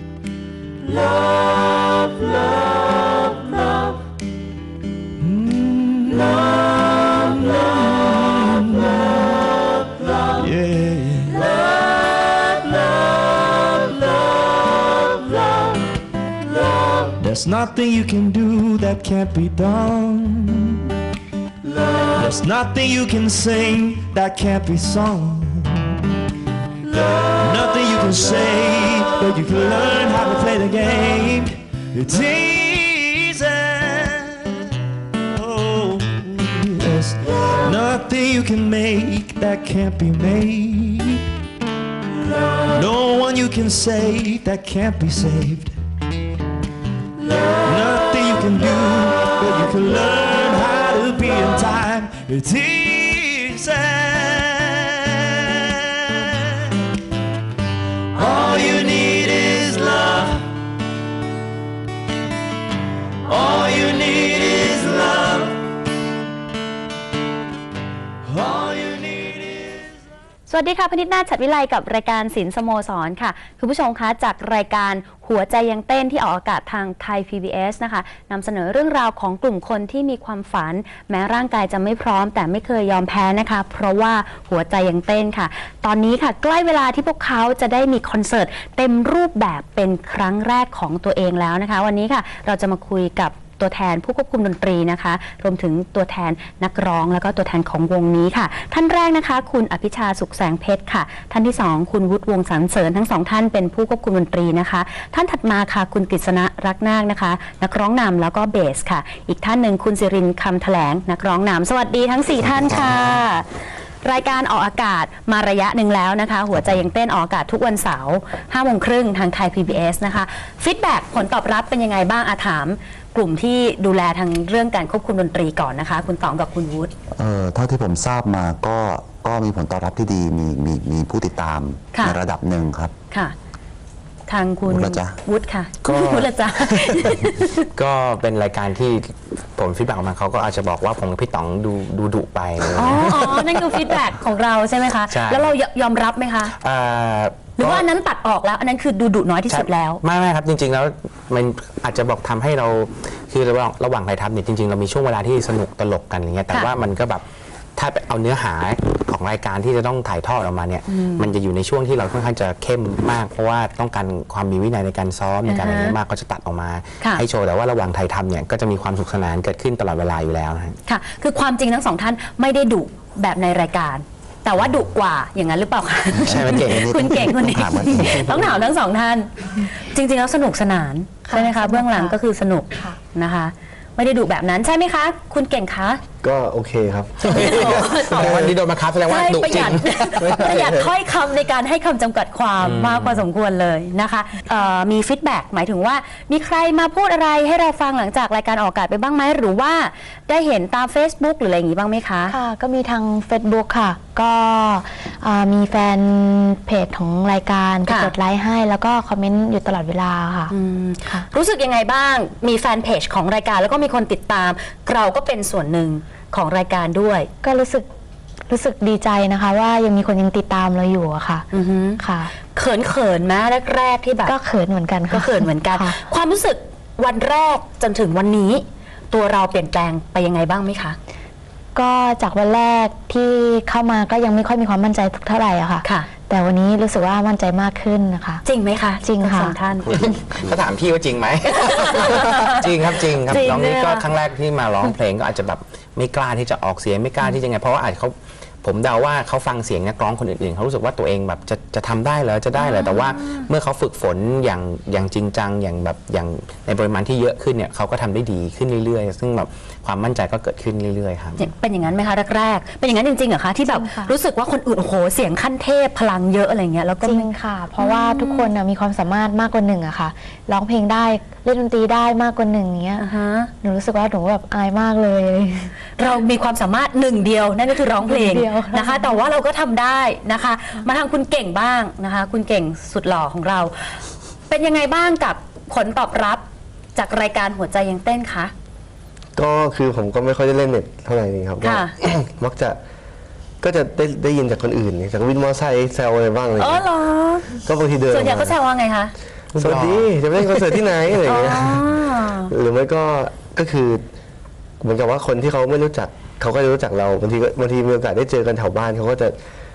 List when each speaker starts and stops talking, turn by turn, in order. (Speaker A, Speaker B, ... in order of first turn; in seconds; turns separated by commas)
Speaker A: 5.2-9.1, Speaker A: 10.3-11.5, Speaker A: 17.1-20.9, Speaker A: 22.1-26.0, Speaker A: 27.0-41.3, Speaker A: 42.7-45.8, Speaker A: 47.6-56.8, Speaker A: 58.1-60.5, Speaker A: 63.3-65.5, Speaker A: 68.2-69.9, Speaker B: 70.5-113.5, Speaker C: 112.6-112.9, Speaker B: 114.0-126.9, Speaker C: 127.2-132.9, Speaker B: 131.9-132.2, Speaker B: 134.3-137.7, Speaker C: 134.7-135.2, Speaker D: 135.8-136.9, Speaker D: 137.7-143.8, Speaker B: 142.7-146.5, Speaker D: 145.1-145.5, Speaker D: 146.6-147.8, Speaker B: 147.6-150.0, Speaker D: 149.5-157.2, Speaker D: 157.8-170.8, Speaker B: 160.9-161.3, Speaker B: 165.5-165.9, Speaker B: 170.8-186.0, Speaker C: 176.1-178.4, Speaker D: 176.3-176.8, Speaker E: 181.3-182.2, Speaker F: 186.2-188.6, Speaker D: 187.2-190.5, Speaker B: 187.2-188.5, Speaker B: 189.1-202.3, Speaker F: 190.2-190.9, Speaker D: 192.6-193.2, Speaker E: 202.3-210.5, Speaker B: 207.8-208.1, Speaker B: 210.5-217.3, Speaker E: 217.4-217.8, Speaker E: 218.5-221.5, Speaker B: 221.5-224.3, Speaker E: 222.0-222.3, Speaker E: 224.2-226.0, Speaker B: 225.1-231.0, Speaker E: 231.7-238.4, Speaker B: 235.8-236.1, Speaker B: 238.4-240.0, Speaker E: 239.0-239.6, Speaker D: 239.9-261.4, Speaker B: 241.4-244.1, Speaker B: 252.6-253.4, Speaker B: 261.4-268.5, Speaker E: 263.7-264.1, Speaker E: 267.0-273.1, Speaker B: 273.0-273.5, Speaker E: 273.6-275.7, Speaker B: 276.0-286.4, Speaker E: 278.0-279.2, Speaker B: 286.9-288.5, Speaker F: 289.4-292.8, Speaker B: 291.6-291.9, Speaker F: 293.6-296.9, Speaker B: 296.6-297.6, Speaker F: 297.6-298.6, Speaker B: 298.1-299.1, Speaker D: 299.5-300.1, Speaker F: 299.5-301.9, Speaker B: 301.2-302.5, Speaker F: 302.5-304.0, Speaker F: 304.8-309.4